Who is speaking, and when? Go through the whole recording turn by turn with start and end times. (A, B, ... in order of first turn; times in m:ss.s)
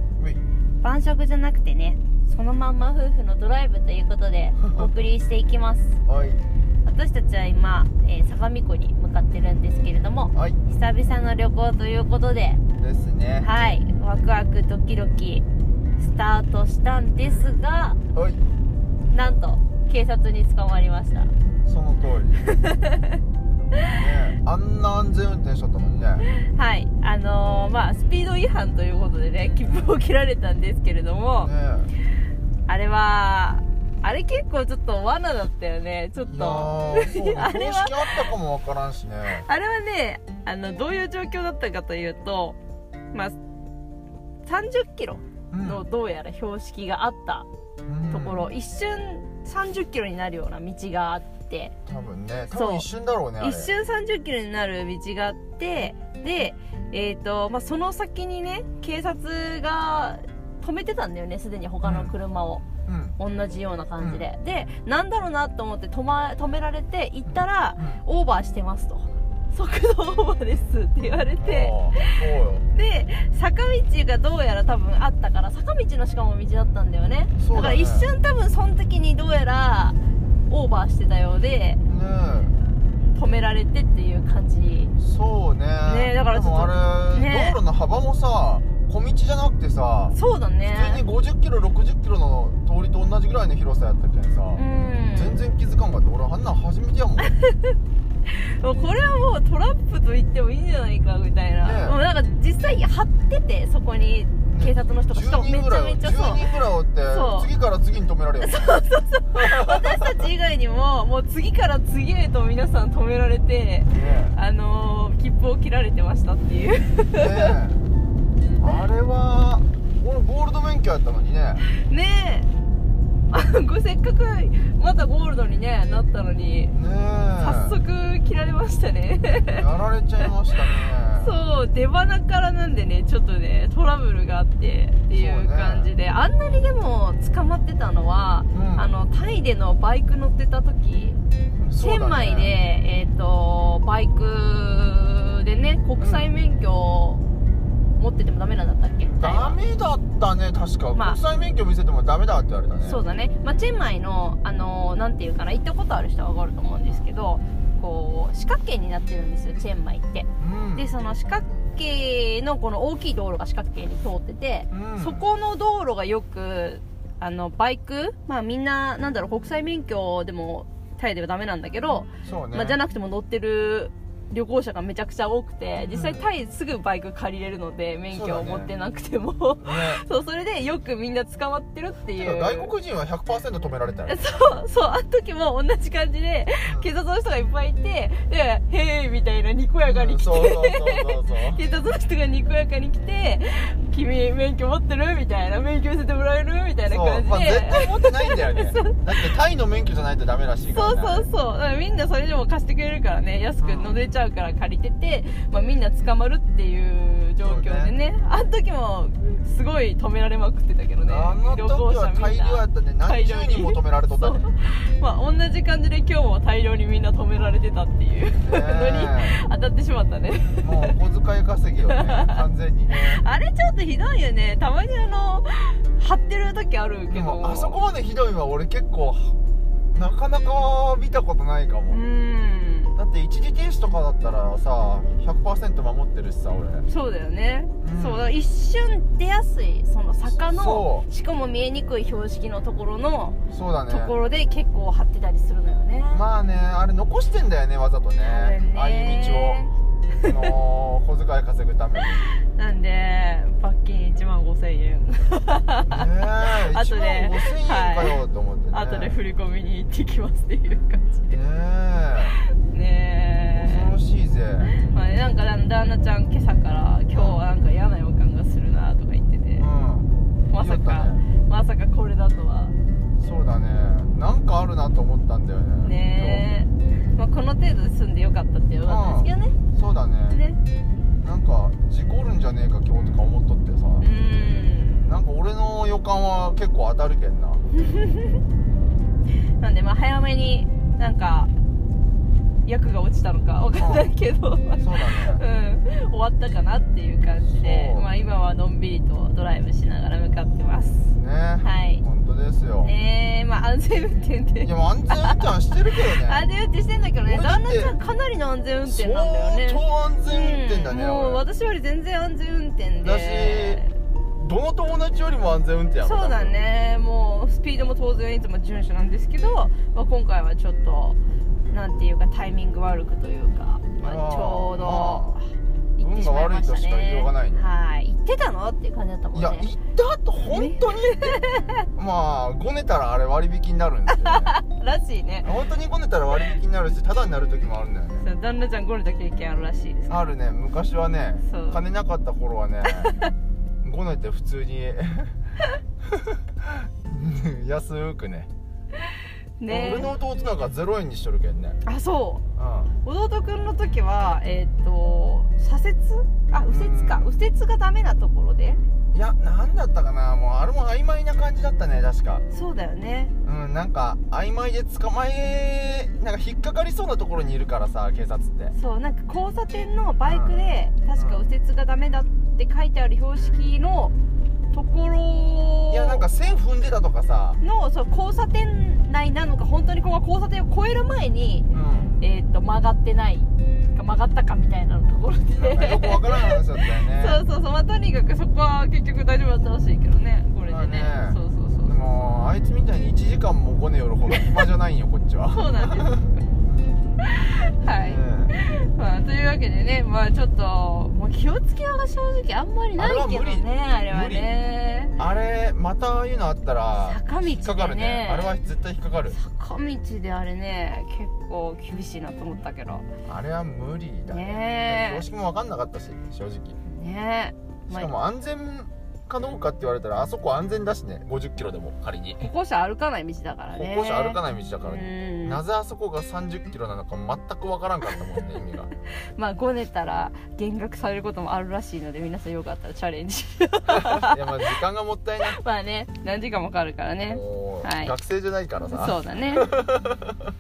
0:00.8-0:06.0 A
0:06.1-0:06.4 B
0:06.8-0:12.6 A
0:10.3-0:10.6 B
0:12.8-0:13.5 B
0:13.4-0:15.4 A
0:16.0-0:18.0 A
0:18.1-0:18.4 B
0:19.1-0:21.3 A
0:21.6-0:22.5 B
0:22.6-0:23.2 A
0:23.9-0:26.3 B
0:26.3-0:31.5 A
0:31.4-0:31.9 B
0:32.7-0:38.3 A
0:36.3-0:39.5 B
0:39.4-0:42.6 A
0:44.5-0:47.5 A
0:45.5-0:45.8 B
0:47.9-0:48.4 B
0:48.1-0:51.7 A
0:51.9-0:53.7 B
0:52.5-0:52.8 A
0:53.4-1:02.6 A
1:01.8-1:02.1 B
1:02.9-1:03.2 B
1:03.2-1:12.2 A
1:04.0-1:04.3 B
1:07.3-1:08.0 B
1:11.4-1:12.7 B
1:12.7-1:20.0 A
1:17.4-1:18.1 B
1:20.5-1:21.8 A
1:21.9-1:22.6 B
1:23.1-1:24.9 A
1:25.0-1:34.6 B
1:25.8-1:27.6 A
1:30.1-1:31.0 A
1:34.6-1:35.4 A
1:35.2-1:37.3 B
1:37.2-1:37.8 A
1:38.3-1:46.5 A
1:41.6-1:42.0 B
1:44.5-1:50.2 B
1:47.1-1:47.5 A
1:48.4-1:57.6 A
1:53.9-1:54.4 B
1:57.1-1:57.8 B
1:58.6-2:01.6 B
2:01.7-2:02.5 A
2:03.3-2:06.8 A
2:06.7-2:07.8 B
2:07.4-2:09.6 A
2:09.5-2:11.4 B
2:11.2-2:21.2 A
2:15.1-2:15.9 B
2:18.5-2:18.9 B
2:21.6-2:22.6 B
2:21.8-2:27.2 A
2:26.0-2:26.3 B
2:28.0-2:29.6 A
2:29.1-2:33.0 B
2:31.0-2:31.2 A
2:32.8-3:02.7 A
2:40.4-2:40.9 B
2:44.7-2:45.3 B
2:52.2-2:52.8 B
2:55.8-2:56.3 B
2:58.1-2:58.7 B
2:59.6-3:00.0 B
3:02.2-3:04.2 B
3:04.1-3:19.3 A
3:06.6-3:06.9 B
3:09.8-3:11.6 B
3:16.9-3:21.3 B
3:20.7-3:41.0 A
3:23.6-3:24.0 B
3:27.4-3:28.0 B
3:31.0-3:34.5 B
3:38.4-3:39.4 B
3:40.6-3:43.2 B
3:41.9-3:47.8 A
3:47.1-3:49.4 B
3:49.9-3:52.0 B
3:51.9-3:53.0 A
3:53.0-3:56.9 B
3:56.9-4:03.4 A
3:57.8-3:58.3 B
4:00.3-4:01.1 B
4:03.5-4:04.2 B
4:03.9-4:06.2 A
4:06.1-4:09.6 B
4:08.2-4:10.5 A
4:10.2-4:12.2 B
4:12.0-4:18.2 A
4:15.9-4:19.2 B
4:18.7-4:21.4 A
4:21.3-4:22.4 B
4:22.4-4:23.9 A
4:23.6-4:24.8 B
4:24.8-4:29.7 A
4:27.1-4:27.4 B
4:29.6-4:31.2 B
4:30.5-4:32.8 A
4:33.2-4:36.5 B
4:35.8-4:39.6 A
4:38.8-4:40.4 B
4:40.3-4:40.6 A
4:41.2-4:44.1 B
4:44.0-4:45.1 A
4:45.0-4:47.6 B
4:47.8-4:48.4 A
4:49.6-4:51.5 A
4:52.7-5:02.0 A
4:53.8-4:54.1 B
4:54.8-4:55.4 B
4:57.4-4:58.1 B
5:01.1-5:02.9 B
5:02.8-5:05.5 A
5:04.6-5:06.4 B
5:06.1-5:14.0 A
5:07.3-5:08.0 B
5:08.9-5:11.4 B
5:13.0-5:13.8 B
5:14.4-5:16.6 B
5:16.0-5:21.2 A
5:21.7-5:25.4 A
5:24.0-5:25.4 B
5:26.0-5:29.7 A
5:26.0-5:27.7 B
5:29.3-5:31.4 B
5:30.5-5:31.8 A
5:32.0-5:34.5 B
5:34.1-5:35.5 A
5:35.4-5:38.2 B
5:38.2-5:40.2 A
5:40.1-5:43.2 B
5:41.4-5:41.8 A
5:42.9-5:43.3 A
5:43.8-5:45.4 B
5:46.1-5:48.5 B
5:49.1-5:50.1 A
5:49.7-5:51.8 B
5:51.8-5:52.4 A
5:52.6-5:52.9 B
5:53.0-5:58.8 A
5:56.7-5:57.3 B
5:59.1-6:02.4 B
6:02.5-6:03.3 A
6:03.4-6:08.8 B
6:08.7-6:14.1 A
6:10.2-6:10.6 B
6:11.2-6:11.5 B
6:14.7-6:16.3 A
6:15.9-6:17.6 B
6:17.6-6:21.7 A
6:21.7-6:22.2 B
6:22.2-6:32.2 A
6:25.6-6:27.4 B
6:30.7-6:36.3 B
6:35.5-6:36.5 A
6:37.2-6:45.2 A
6:37.8-6:38.6 B
6:43.0-6:44.5 B
6:45.2-6:49.4 B
6:47.0-6:48.5 A
6:49.3-6:53.0 A
6:53.3-6:56.8 B
6:54.3-6:55.2 A
6:56.8-6:58.1 A
6:57.9-7:02.5 B
7:02.4-7:05.6 A
7:03.7-7:08.9 B
7:09.4-7:14.8 A
7:13.9-7:15.6 B
7:15.4-7:18.2 A
7:17.2-7:20.5 B
7:18.8-7:19.7 A